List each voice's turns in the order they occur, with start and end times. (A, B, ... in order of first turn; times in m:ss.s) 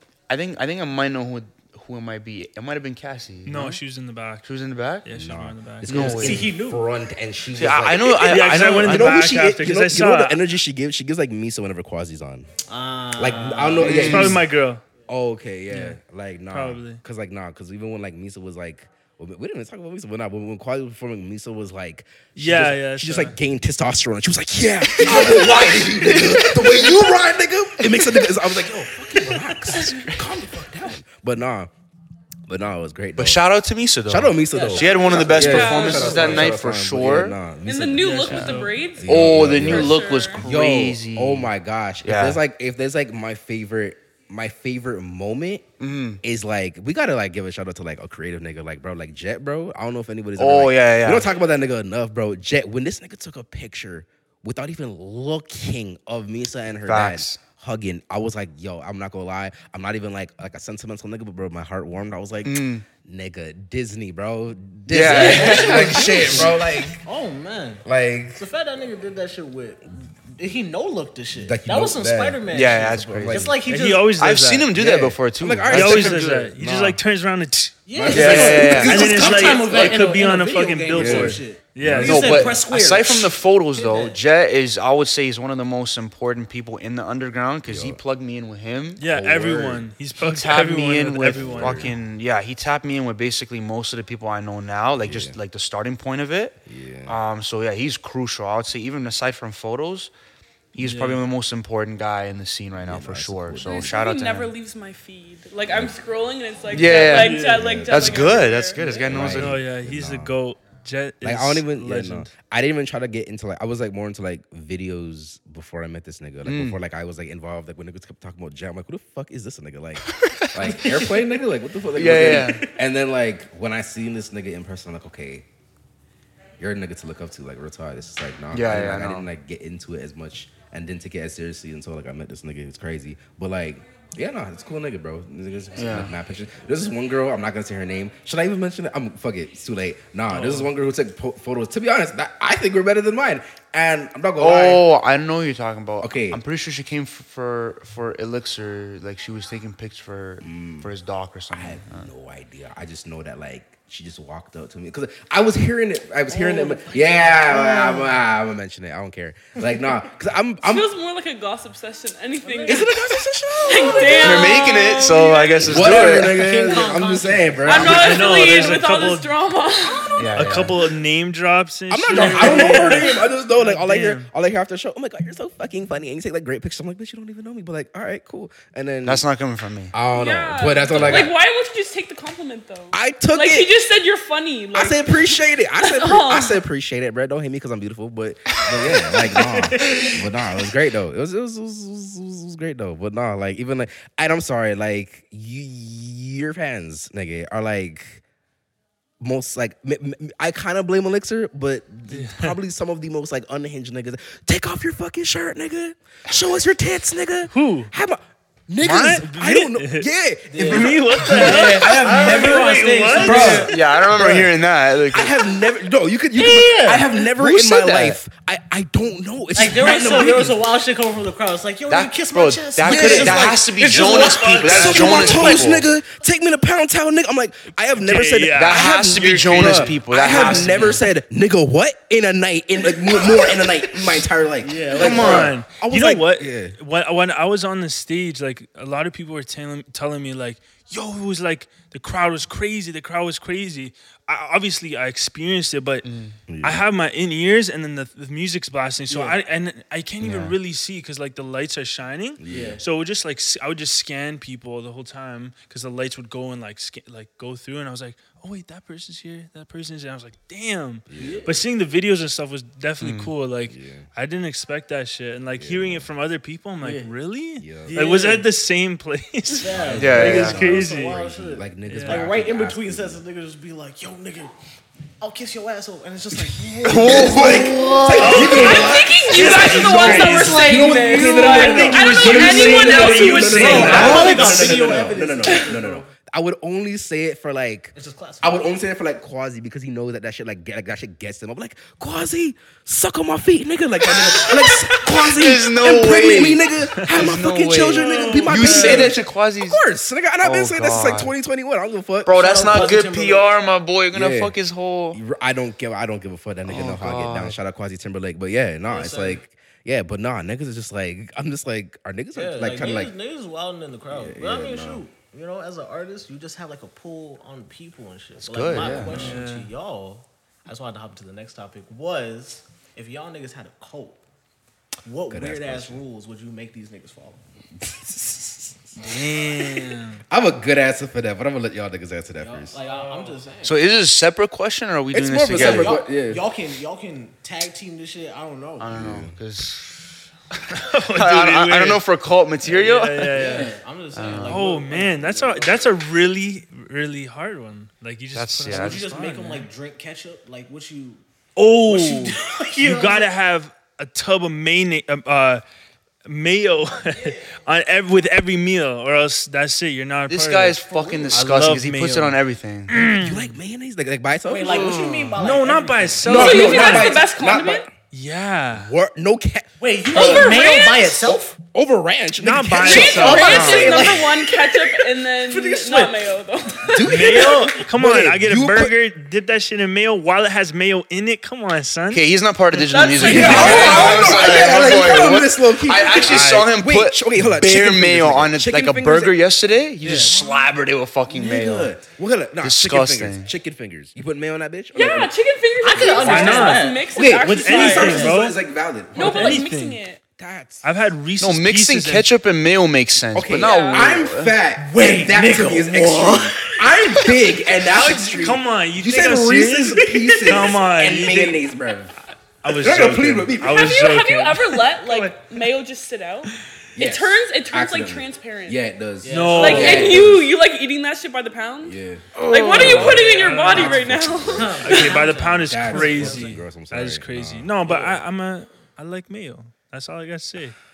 0:00.3-0:03.8 A
0:03.4-0:04.4 B
0:04.4-0:05.1 A
0:05.0-0:06.4 B
0:05.1-0:12.5 C
0:05.8-0:06.5 A
0:06.1-0:06.8 D
0:07.6-0:09.2 A
0:08.2-0:10.4 B
0:12.7-0:14.4 D
0:13.2-0:14.5 C
0:13.8-0:14.8 B
0:13.8-0:14.2 A
0:15.1-0:31.7 C
0:15.7-0:16.0 B
0:16.5-0:17.0 B
0:22.4-0:23.3 B
0:24.8-0:27.1 A
0:27.8-0:28.2 A
0:29.2-0:30.2 A
0:32.5-0:33.4 C
0:33.2-0:37.4 A
0:34.1-0:45.6 C
0:34.5-0:36.5 D
0:35.2-0:36.4 E
0:37.6-0:40.4 E
0:38.0-0:38.8 B
0:38.3-0:38.5 A
0:39.0-0:41.5 A
0:42.0-0:42.4 A
0:45.8-0:46.2 A
0:46.2-1:07.0 C
0:50.4-0:51.3 A
0:56.8-0:57.4 A
1:02.4-1:02.8 A
1:04.9-1:06.5 A
1:05.0-1:07.8 D
1:07.8-1:08.4 C
1:08.4-1:14.2 D
1:11.3-1:13.6 C
1:12.5-1:13.5 A
1:13.6-1:14.7 B
1:14.1-1:16.6 A
1:14.7-1:17.0 C
1:15.7-1:22.5 B
1:17.8-1:24.2 D
1:17.9-1:20.0 C
1:18.1-1:19.4 A
1:20.9-1:22.5 C
1:22.0-1:29.0 A
1:27.6-1:28.0 C
1:29.0-1:31.9 B
1:29.1-1:29.9 C
1:30.2-1:40.1 A
1:31.3-1:31.9 C
1:35.0-1:35.4 C
1:36.6-1:37.2 C
1:40.7-1:44.5 A
1:40.8-1:41.2 B
1:42.8-1:44.0 C
1:43.6-1:48.9 E
1:45.7-1:46.0 C
1:46.7-1:49.6 A
1:46.8-1:50.3 C
1:47.0-1:47.6 B
1:49.0-1:52.3 B
1:51.2-2:05.4 C
1:56.4-1:56.8 A
2:00.1-2:00.8 A
2:00.6-2:01.2 D
2:01.9-2:02.6 A
2:02.1-2:02.7 D
2:06.6-2:24.8 C
2:08.5-2:09.3 A
2:15.8-2:16.1 A
2:20.3-2:20.6 B
2:24.4-2:32.1 A
2:26.0-2:26.4 C
2:30.4-2:30.9 C
2:31.5-2:40.9 C
2:36.3-2:38.2 D
2:40.6-2:42.9 E
2:42.4-2:42.9 D
2:42.6-2:44.6 C
2:43.6-2:46.1 E
2:43.7-2:44.5 D
2:44.2-2:46.5 A
2:45.6-2:48.4 C
2:45.7-2:48.8 D
2:47.6-2:50.2 E
2:47.8-2:49.3 B
2:49.9-2:50.2 D
2:50.2-2:50.8 A
2:50.3-2:54.3 B
2:51.9-2:59.2 C
2:52.2-2:53.0 D
2:59.0-2:59.9 A
2:59.9-3:01.3 C
3:00.1-3:06.6 E
3:01.0-3:01.2 A
3:02.9-3:03.7 C
3:04.7-3:18.2 C
3:09.7-3:10.1 D
3:19.2-3:34.4 C
3:22.1-3:22.6 B
3:27.5-3:27.9 B
3:28.8-3:30.1 B
3:30.5-3:34.0 D
3:30.6-3:33.7 B
3:33.2-3:35.3 A
3:35.1-3:40.6 C
3:36.4-3:37.1 D
3:37.3-3:38.2 A
3:39.5-3:45.7 D
3:41.9-3:45.9 A
3:42.8-3:43.7 C
3:43.8-3:45.5 B
3:44.6-3:56.8 C
3:48.0-3:50.9 B
3:48.5-3:51.0 A
3:54.6-3:55.6 D
3:54.8-4:06.0 B
4:06.0-4:06.4 A
4:06.5-4:06.8 C
4:06.6-4:31.2 B
4:09.1-4:09.4 D
4:10.2-4:10.6 A
4:12.4-4:12.8 C
4:12.5-4:12.8 D
4:21.1-4:21.5 C
4:21.2-4:21.6 D
4:23.0-4:23.3 A
4:23.7-4:24.1 C
4:25.6-4:26.1 C
4:26.8-4:27.1 D
4:27.6-4:28.1 C
4:27.9-4:28.5 D
4:29.6-4:34.5 D
4:29.7-4:33.2 C
4:29.9-4:30.6 A
4:31.9-4:32.3 B
4:35.2-4:39.0 D
4:36.8-4:38.7 A
4:36.8-5:03.0 C
4:38.2-4:45.0 B
4:38.3-4:44.6 E
4:39.8-4:46.1 D
4:43.8-4:44.2 A
4:45.4-4:45.7 E
4:47.9-4:48.6 D
4:55.1-4:59.8 A
4:57.9-4:59.1 D
5:00.4-5:01.3 A
5:02.2-5:05.2 A
5:02.3-5:03.5 D
5:04.1-5:04.6 C
5:05.1-5:13.1 C
5:06.6-5:07.6 A
5:08.9-5:09.4 D
5:12.3-5:24.2 D
5:14.1-5:15.0 C
5:18.4-5:19.3 A
5:18.9-5:19.7 B
5:25.0-5:27.4 D
5:25.3-5:26.0 C
5:27.8-5:28.8 C
5:29.0-5:30.2 B
5:30.3-5:32.8 C
5:32.4-5:33.8 D
5:32.8-5:33.4 B
5:33.6-5:36.0 A
5:35.1-5:36.4 C
5:35.5-5:38.9 D
5:38.8-5:44.7 A
5:38.9-5:39.4 C
5:40.7-5:42.0 B
5:42.6-5:43.8 B
5:43.3-5:46.0 D
5:44.4-5:49.7 B
5:48.3-5:49.2 A
5:48.6-5:51.2 D
5:51.6-5:55.6 B
5:51.8-5:53.3 D
5:56.2-6:03.5 B
5:57.1-5:57.5 D
6:00.3-6:03.0 A
6:00.9-6:01.5 D
6:03.0-6:05.1 C
6:04.4-6:06.7 D
6:04.6-6:05.6 A
6:05.4-6:07.2 B
6:06.2-6:07.9 C
6:06.2-6:07.8 E
6:08.1-6:08.9 B
6:08.7-6:10.7 C
6:09.8-6:11.6 D
6:10.1-6:11.4 E
6:11.6-6:14.0 C
6:12.4-6:14.1 B
6:12.8-6:17.5 E
6:12.8-6:16.2 D
6:16.9-6:19.0 C
6:17.0-6:22.2 B
6:17.3-6:17.8 D
6:22.1-6:31.9 A
6:22.8-6:25.2 E
6:23.2-6:29.4 C
6:23.3-6:24.0 B
6:26.3-6:26.6 B
6:30.0-6:30.4 D
6:30.1-6:30.4 B
6:31.4-6:31.8 D
6:31.4-6:35.3 C
6:32.6-6:33.5 A
6:34.9-6:38.4 E
6:35.8-6:37.1 D
6:36.0-6:38.6 B
6:37.1-6:39.6 C
6:37.9-6:38.3 D
6:39.1-6:40.2 E
6:39.2-6:40.0 B
6:40.4-6:40.8 C
6:40.8-6:42.3 B
6:41.4-6:44.6 A
6:43.3-6:52.1 C
6:43.6-6:44.2 E
6:44.8-6:47.3 D
6:47.9-6:51.6 B
6:50.4-6:50.8 D
6:52.6-6:55.4 B
6:52.7-6:54.1 C
6:53.6-6:58.8 E
6:57.0-7:00.5 C
6:59.2-7:00.3 D
6:59.3-7:00.2 B
6:59.5-7:05.3 E
7:01.8-7:03.0 C
7:02.4-7:03.3 A
7:02.7-7:04.0 D
7:02.8-7:04.2 B
7:03.7-7:05.0 C
7:04.5-7:06.5 D
7:04.8-7:10.7 B
7:05.6-7:08.1 C